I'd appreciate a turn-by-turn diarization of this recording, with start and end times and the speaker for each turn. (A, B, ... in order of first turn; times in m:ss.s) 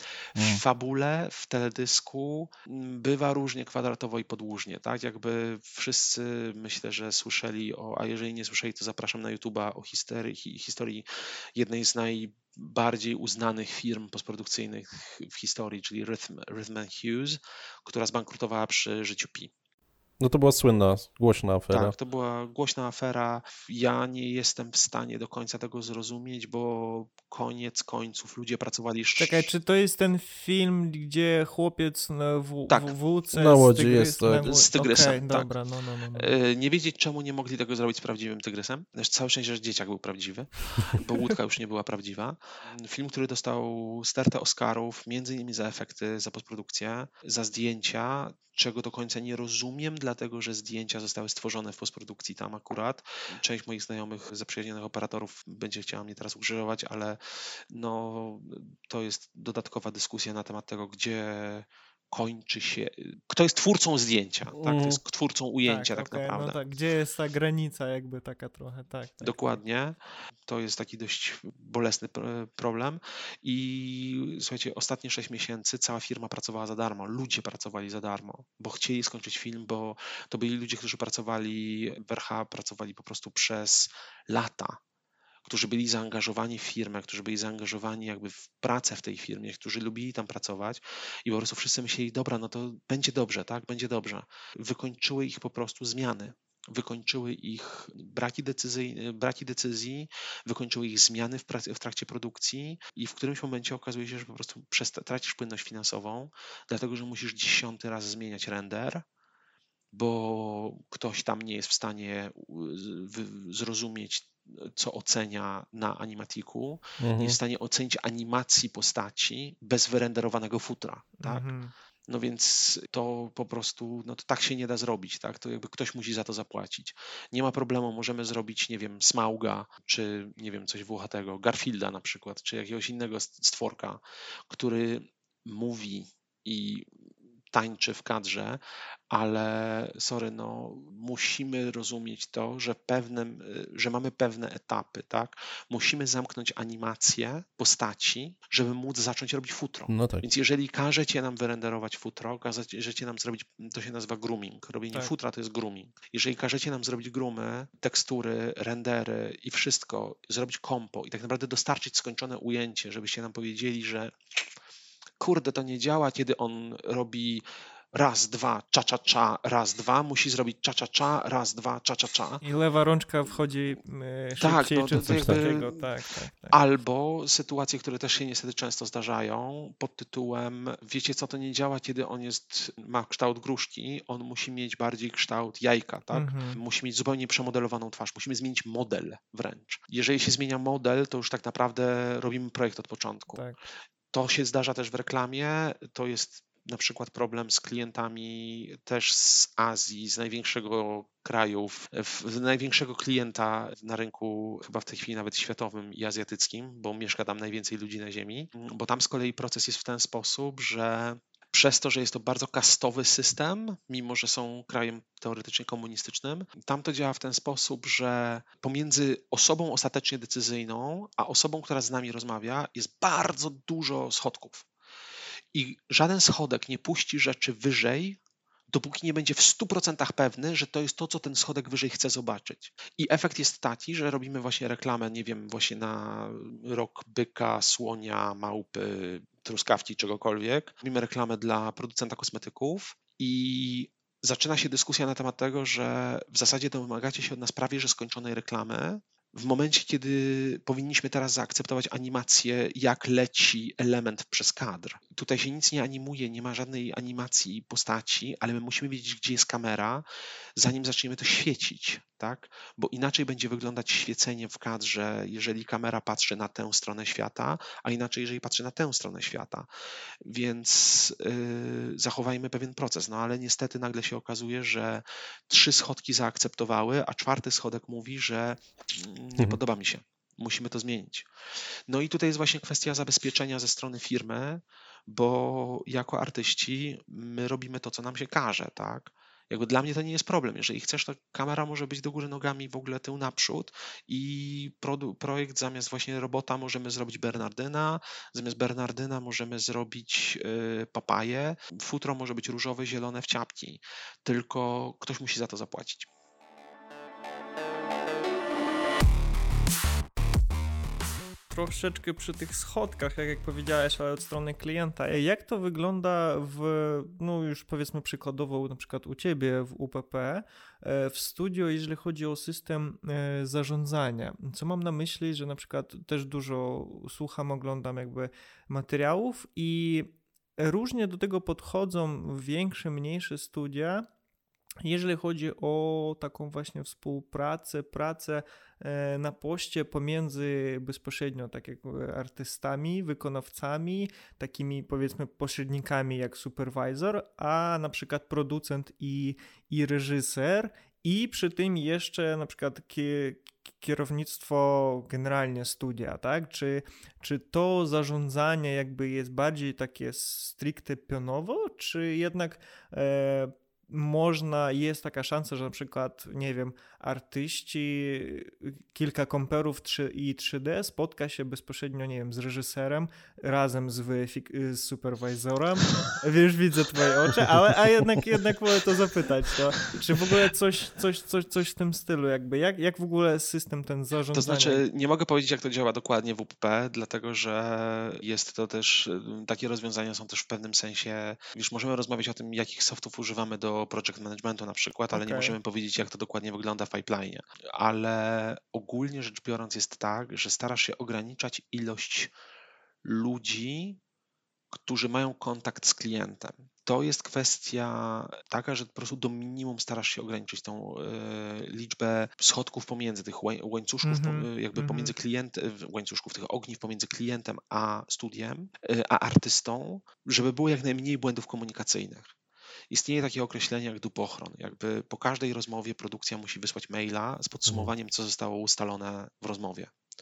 0:00.4-0:19.5 A
0:00.4-0:00.6 B
0:20.2-0:22.0 B
0:21.7-0:29.5 A
0:29.2-0:36.4 C
0:32.7-0:32.9 A
0:33.3-0:34.5 B
0:34.4-0:35.5 A
0:36.2-1:06.6 A
1:04.6-1:05.0 B
1:05.7-1:09.6 C
1:09.2-1:24.8 A
1:25.4-1:49.0 A
1:49.9-2:01.5 A
1:57.0-1:57.4 B
2:01.2-2:01.7 C
2:02.1-2:16.9 A
2:17.5-2:44.4 A
2:29.9-2:30.2 B
2:45.2-2:52.4 A
2:52.4-2:56.6 C
2:54.4-2:55.9 A
2:55.0-2:55.4 B
2:56.5-3:13.4 A
3:06.1-3:06.6 C
3:13.3-3:13.6 C
3:14.1-3:44.7 A
3:45.5-3:48.2 A
3:48.7-4:20.0 A
4:20.6-4:29.7 A
4:30.2-4:41.3 A
4:41.9-5:06.1 A
5:11.5-5:34.0 C
5:34.8-6:24.8 C
6:24.3-6:42.3 A
6:35.1-6:35.6 C
6:43.0-6:44.0 A
6:44.7-7:02.3 A
6:54.0-6:55.2 C
7:02.9-7:09.9 A
7:07.7-7:07.9 B